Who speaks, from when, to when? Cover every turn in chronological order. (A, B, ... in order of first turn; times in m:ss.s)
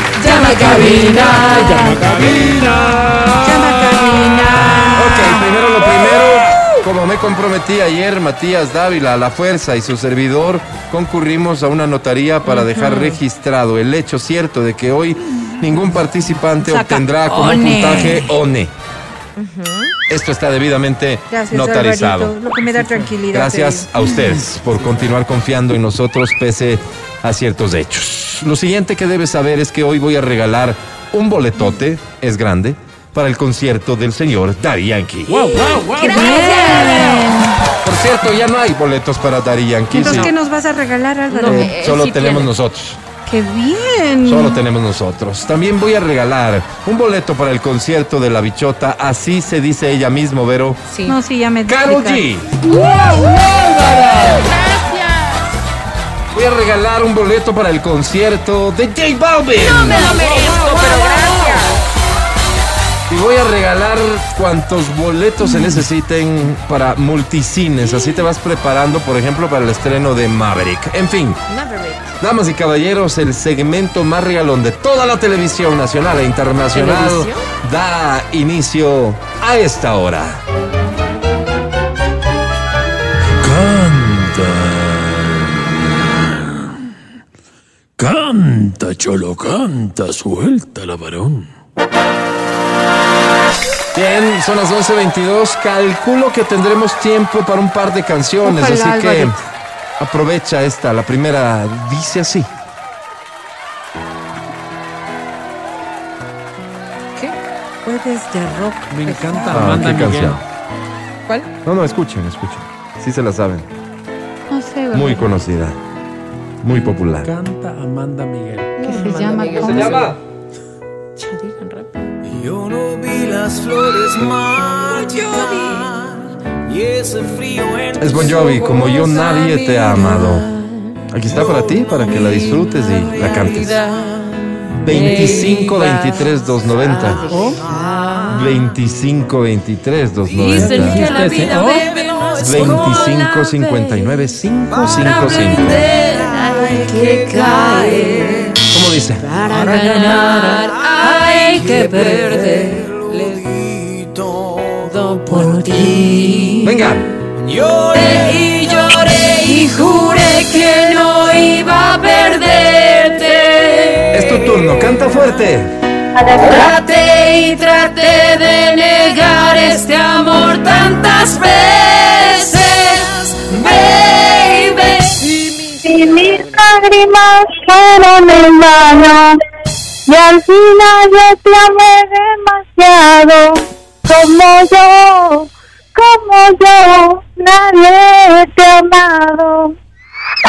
0:00.2-0:02.1 A
0:00.3-0:01.4 B
0:00.4-0:03.7 C
0:02.1-0:02.5 D
0:03.4-0:05.4 B
0:05.0-0:18.7 D
0:12.4-0:13.2 A
0:16.6-0:18.3 B
0:19.4-0:19.9 A
0:20.1-0:22.4 D
0:21.3-0:23.9 B
0:23.3-0:35.6 D
0:35.3-0:37.2 C
0:35.6-0:37.5 A
0:36.0-0:37.3 B
0:37.8-0:40.3 D
0:39.9-0:41.7 B
0:41.3-0:42.5 A
0:41.4-0:43.0 D
0:43.3-0:44.6 B
0:44.2-0:50.8 D
0:50.9-0:51.2 A
0:51.0-0:52.2 B
0:51.7-0:52.6 D
0:53.0-0:53.3 C
0:54.3-0:55.5 A
0:56.3-1:00.2 D
0:59.6-1:01.8 A
1:00.0-1:00.7 C
1:00.7-1:01.2 B
1:03.1-1:11.4 D
1:11.5-1:12.1 A
1:12.2-1:20.4 D
1:16.7-1:17.5 A
1:23.4-1:26.1 C
1:28.0-1:31.5 C
1:33.9-1:39.4 D
1:38.4-1:39.4 B
1:40.0-1:42.5 D
1:47.2-1:49.8 B
1:48.9-1:50.4 C
1:49.5-1:50.4 D
1:51.6-1:53.6 D
1:54.5-1:55.3 B
1:54.9-1:55.8 D
1:56.6-1:57.3 D
1:57.2-1:58.7 C
1:58.8-2:00.1 A
1:58.8-2:00.1 B
1:59.6-2:00.2 D
2:01.2-2:02.1 A
2:02.3-2:08.0 E
2:05.2-2:05.9 A
2:08.0-2:10.5 D
2:08.4-2:11.0 A
2:11.1-2:13.8 D
2:11.4-2:15.4 E
2:12.2-2:18.7 A
2:14.8-2:17.3 D
2:17.3-2:17.6 C
2:17.5-2:18.5 E
2:18.3-2:21.1 D
2:20.3-2:23.2 E
2:20.4-2:24.3 A
2:20.7-2:21.8 C
2:22.4-2:25.7 D
2:24.7-2:28.6 E
2:24.9-2:28.6 A
2:28.7-2:29.2 D
2:29.2-2:33.4 A
2:29.5-2:36.6 E
2:34.8-2:36.9 A
2:36.6-2:37.0 D
2:37.4-2:40.0 E
2:37.9-2:44.4 A
2:44.1-2:45.7 D
2:46.1-2:46.7 F
2:46.5-2:56.8 A
2:55.8-2:59.4 F
3:00.1-3:09.7 F